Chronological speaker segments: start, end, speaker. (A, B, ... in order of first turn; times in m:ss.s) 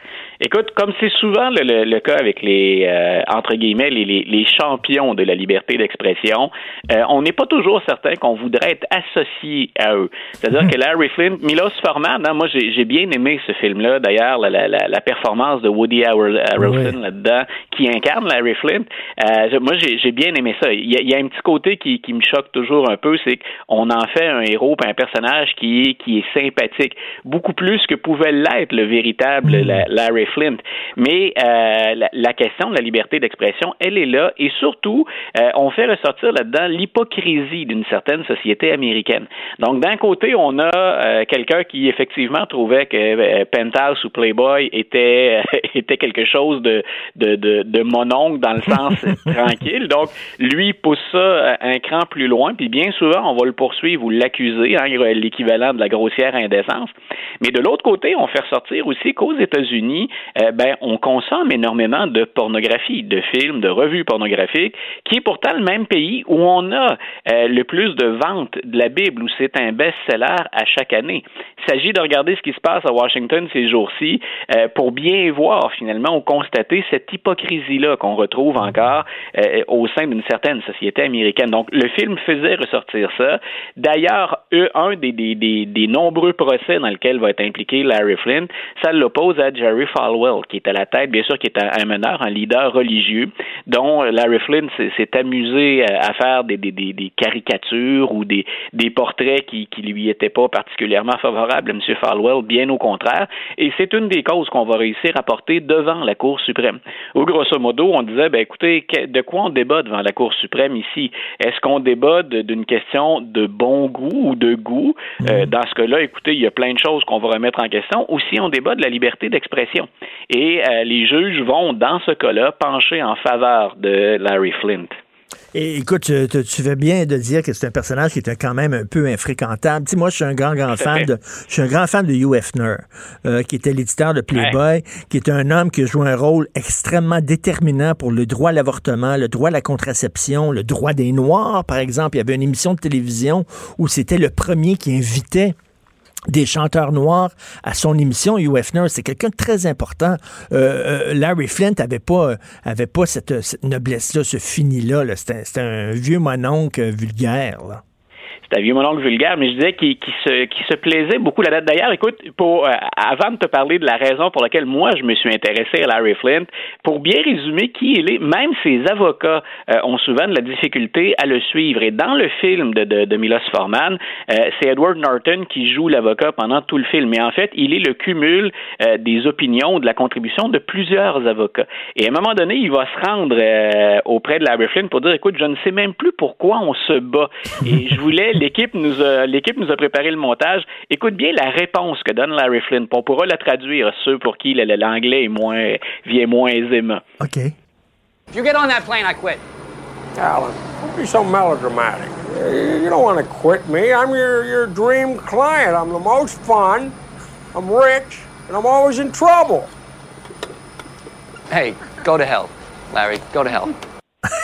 0:00.4-2:05.0 A
0:16.6-0:17.0 B
0:29.4-0:29.8 B
1:55.2-1:55.5 B
2:05.5-2:25.5 B
2:10.7-2:11.1 A
2:26.3-2:37.8 B
2:38.4-3:17.0 A
3:17.2-3:17.5 B
3:18.3-3:19.4 C
3:20.2-3:26.9 D
3:27.5-3:29.7 D
3:31.5-3:33.7 C